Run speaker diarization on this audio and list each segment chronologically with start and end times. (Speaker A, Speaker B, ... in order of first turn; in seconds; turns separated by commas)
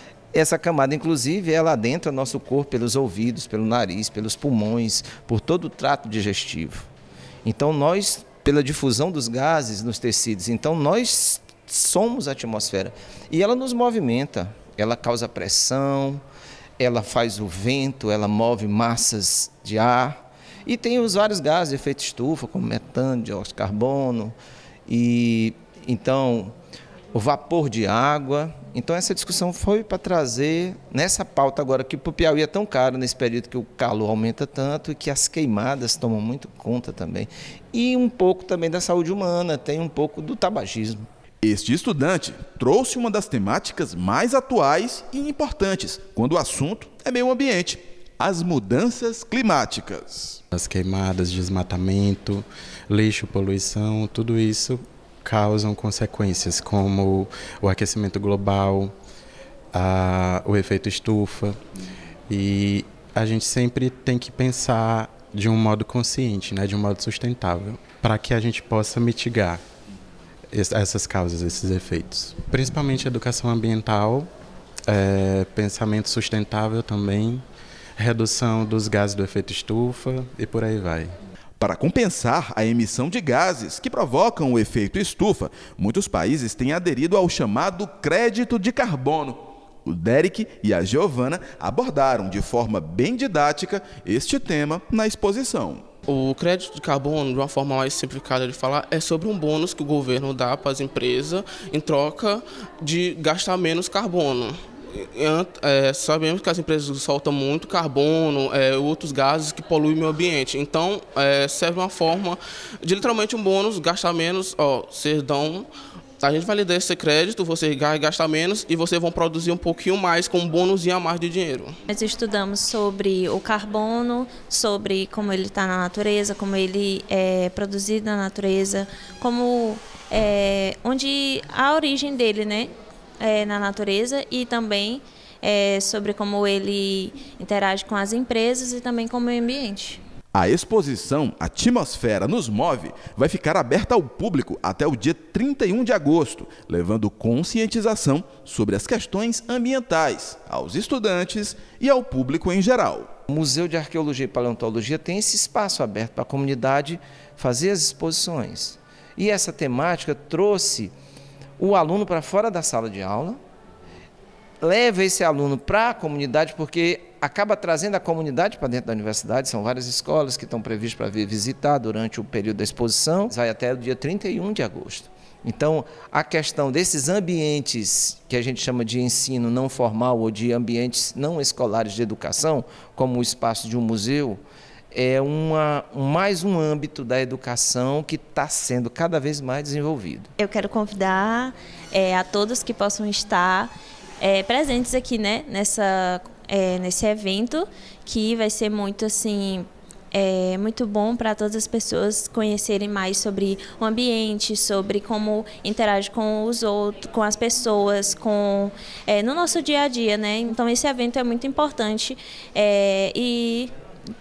Speaker A: 0.3-6.9, Speaker A: 7.5-16.2, Speaker A: 16.8-24.4, Speaker A: 24.9-26.5, Speaker A: 27.1-41.1, Speaker B: 41.4-50.4, Speaker C: 50.5-58.9, Speaker C: 59.7-61.6, Speaker C: 62.3-69.6, Speaker C: 70.5-74.3, Speaker C: 74.9-77.4, Speaker C: 78.0-81.1, Speaker B: 81.6-95.8, Speaker D: 96.1-115.7, Speaker D: 116.2-121.8, Speaker E: 121.9-140.0, Speaker B: 140.3-153.1, Speaker A: 153.3-160.9, Speaker A: 161.6-163.4, Speaker A: 164.6-190.3, Speaker E: 190.4-213.7